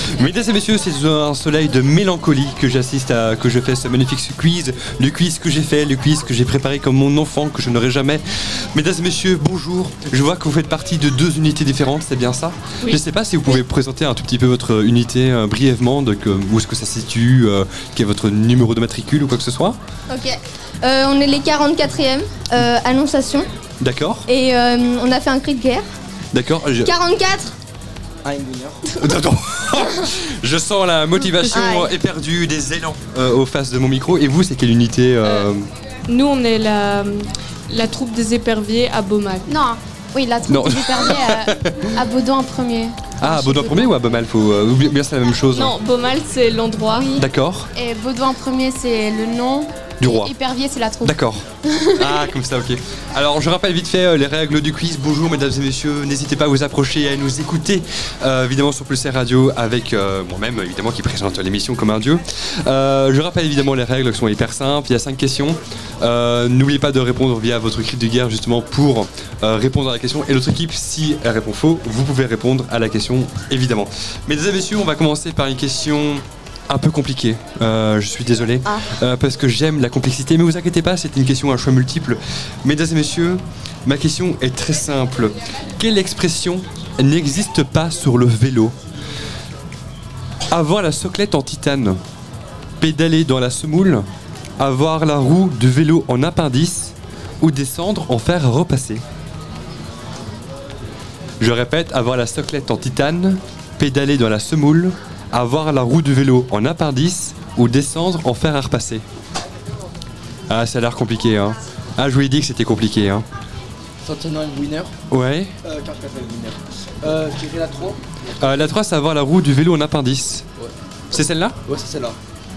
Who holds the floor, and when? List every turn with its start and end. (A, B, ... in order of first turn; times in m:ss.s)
0:00.1-0:19.8 A
0:20.1-0:23.5 B
0:23.8-0:24.3 A
0:24.3-0:25.8 B
0:26.3-0:26.9 A
0:26.8-0:27.5 B
0:28.2-0:28.8 C
0:29.0-0:35.7 A
0:31.5-0:31.9 B
0:36.0-0:39.5 D
0:39.5-0:44.1 E
0:40.5-0:41.9 A
0:43.2-0:45.7 A
0:45.5-0:47.1 D
0:46.9-0:51.1 E
0:47.2-0:47.7 A
0:50.0-0:50.3 A
0:51.0-1:28.7 A
1:30.5-1:32.0 A
1:32.8-1:34.0 A
1:34.6-1:39.0 A
1:41.4-1:49.0 A
1:50.5-1:53.2 A
1:54.0-1:54.9 C
1:55.1-1:55.5 A
1:55.6-1:58.0 C
1:58.4-2:00.4 A
2:01.1-2:01.6 A
2:01.6-2:02.2 C